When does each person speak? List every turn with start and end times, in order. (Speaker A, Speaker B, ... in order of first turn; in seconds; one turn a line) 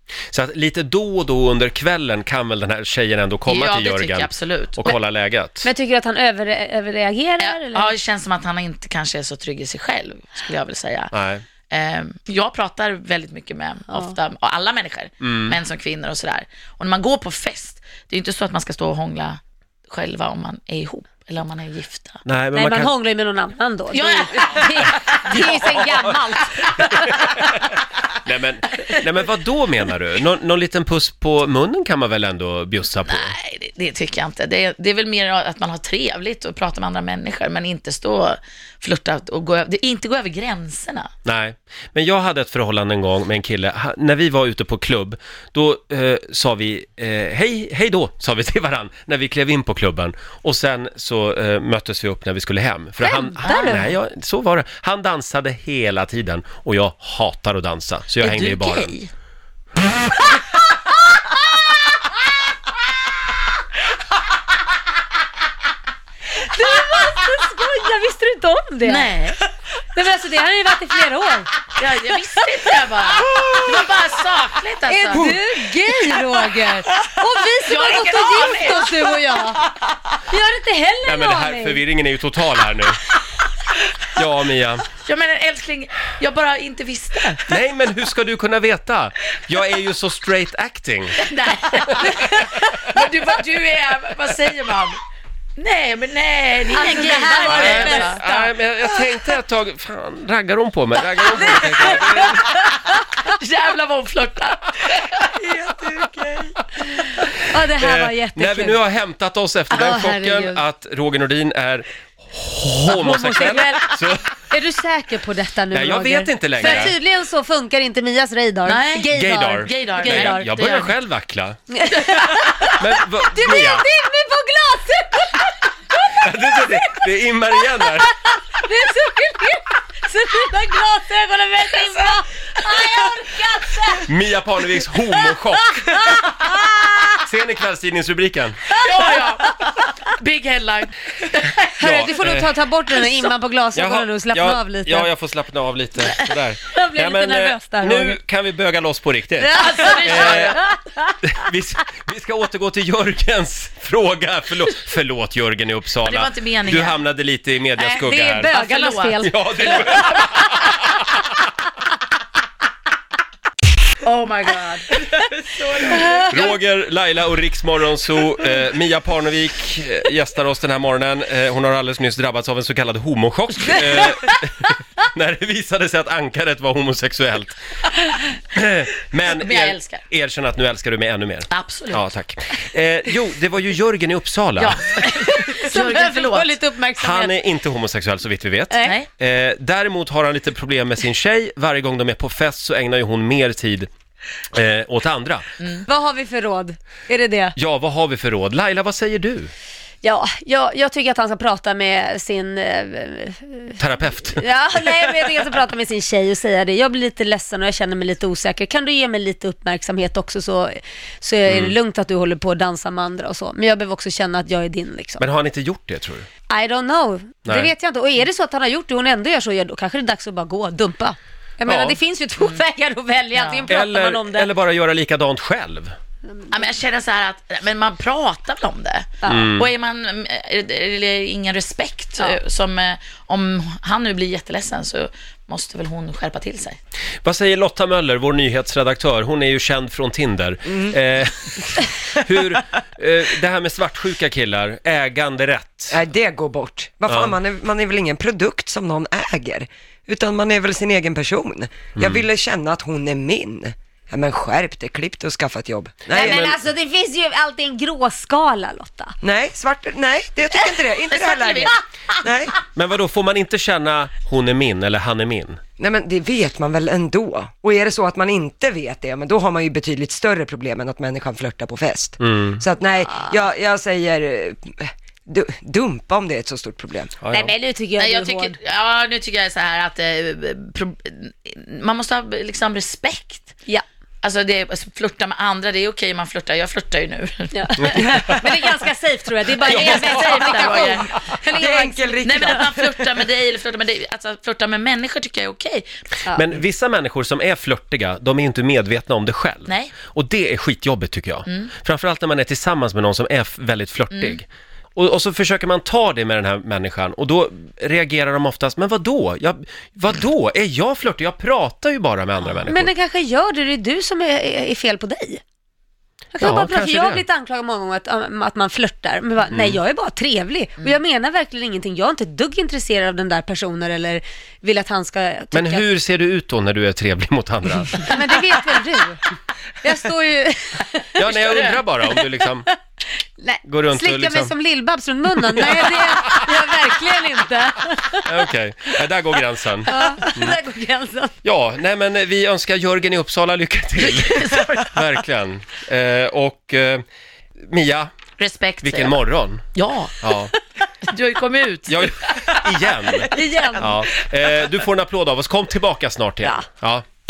Speaker A: 0.3-5.7
Speaker B: 3.5-4.8
Speaker C: 5.6-8.0
Speaker B: 7.4-11.1
Speaker A: 11.1-11.4
Speaker B: 11.7-22.2
Speaker C: 13.9-14.2
Speaker A: 15.2-15.6
Speaker A: 22.2-22.9
Speaker C: 22.5-27.2
Speaker B: 23.9-26.6
Speaker A: 27.2-27.7
Speaker A: 28.2-33.3
Speaker B: 33.0-41.1
Speaker A: 41.2-59.0
Speaker C: 53.0-54.0
Speaker B: 58.2-59.1
Speaker C: 61.2-61.5
Speaker C: 66.4-69.1
Speaker B: 68.8-69.4
Speaker C: 69.9-71.5
Speaker B: 71.8-75.3
Speaker C: 72.1-72.5
Speaker C: 73.2-73.6
Speaker C: 74.9-79.6
Speaker B: 77.6-79.2
Speaker C: 80.3-81.8
Speaker A: 81.0-83.0
Speaker A: 84.2-84.9
Speaker B: 85.0-87.5
Speaker A: 87.5-91.2
Speaker B: 91.2-95.0
Speaker A: 91.8-92.4
Speaker B: 95.6-98.2
Speaker C: 96.7-99.3
Speaker A: 97.3-102.5
Speaker C: 101.2-102.8
Speaker B: 101.3-102.7
Speaker B: 103.2-105.3
Speaker B: 106.0-106.3
Speaker C: 107.0-108.8
Speaker A: 107.8-114.3
Speaker C: 109.7-110.6
Speaker C: 112.9-120.6
Speaker A: 115.7-116.9
Speaker B: 116.6-116.9
Speaker B: 118.7-121.0
Speaker A: 119.1-121.6
Speaker C: 121.7-134.1
Speaker B: 121.9-122.7
Speaker A: 122.8-123.9
Speaker A: 126.2-128.1
Speaker A: 134.0-136.3
Speaker C: 135.1-137.2
Speaker A: 137.2-138.7
Speaker B: 138.7-141.6
Speaker C: 138.9-139.3
Speaker A: 141.8-142.5
Speaker C: 141.8-145.1
Speaker A: 143.7-150.6
Speaker C: 146.7-148.2
Speaker C: 149.4-151.3
Speaker B: 149.6-150.6
Speaker A: 151.2-158.5
Speaker B: 156.0-157.0
Speaker C: 157.8-160.3
Speaker B: 158.4-160.4
Speaker A: 159.2-161.0
Speaker B: 164.0-166.6
Speaker C: 165.9-166.2
Speaker A: 166.3-177.6
Speaker A: 178.5-185.0
Speaker B: 179.3-180.0
Speaker B: 181.5-182.1
Speaker B: 184.6-186.6
Speaker C: 185.3-187.4
Speaker A: 187.0-193.9
Speaker C: 188.7-189.0
Speaker B: 188.8-189.1
Speaker A: 194.5-195.4
Speaker C: 195.9-197.6
Speaker A: 197.6-199.5
Speaker C: 200.0-215.2
Speaker A: 203.8-205.3
Speaker A: 211.5-211.8
Speaker A: 215.2-216.3
Speaker C: 216.5-224.5
Speaker A: 217.5-217.7
Speaker A: 221.7-222.0
Speaker B: 223.3-223.7
Speaker A: 223.7-225.9
Speaker B: 226.5-236.8
Speaker C: 229.2-229.5
Speaker A: 229.3-229.7
Speaker A: 237.2-246.0
Speaker D: 240.7-241.0
Speaker D: 245.9-256.6
Speaker A: 247.1-247.4
Speaker A: 252.0-252.2
Speaker C: 256.1-259.1
Speaker A: 256.1-256.6
Speaker D: 259.2-262.6
Speaker B: 261.1-261.7
Speaker A: 262.7-265.6
Speaker D: 265.8-277.1
Speaker A: 272.2-272.6
Speaker A: 277.2-277.5
Speaker C: 277.3-278.6
Speaker B: 278.0-283.6
Speaker B: 284.2-288.4
Speaker C: 287.5-292.7
Speaker A: 288.0-288.4
Speaker B: 289.6-291.2
Speaker A: 289.7-290.2
Speaker D: 291.5-293.2
Speaker B: 292.2-295.9
Speaker A: 296.3-312.9
Speaker B: 299.7-300.0
Speaker B: 301.5-301.7
Speaker B: 304.1-304.4
Speaker B: 312.4-312.7
Speaker C: 312.7-315.4
Speaker C: 316.3-325.9
Speaker A: 316.4-317.2
Speaker A: 319.5-319.8
Speaker A: 325.5-328.1
Speaker C: 328.0-329.2
Speaker C: 329.8-332.8
Speaker A: 331.1-332.7
Speaker B: 331.3-331.8
Speaker C: 333.4-338.3
Speaker A: 333.7-334.5
Speaker A: 335.5-336.4
Speaker A: 338.2-340.6
Speaker C: 339.9-341.4
Speaker A: 341.4-347.0
Speaker B: 344.0-345.0
Speaker A: 347.7-348.1
Speaker B: 348.4-350.3
Speaker A: 348.8-349.6
Speaker A: 350.2-350.5
Speaker B: 351.0-352.1
Speaker A: 351.9-357.0
Speaker C: 353.1-354.0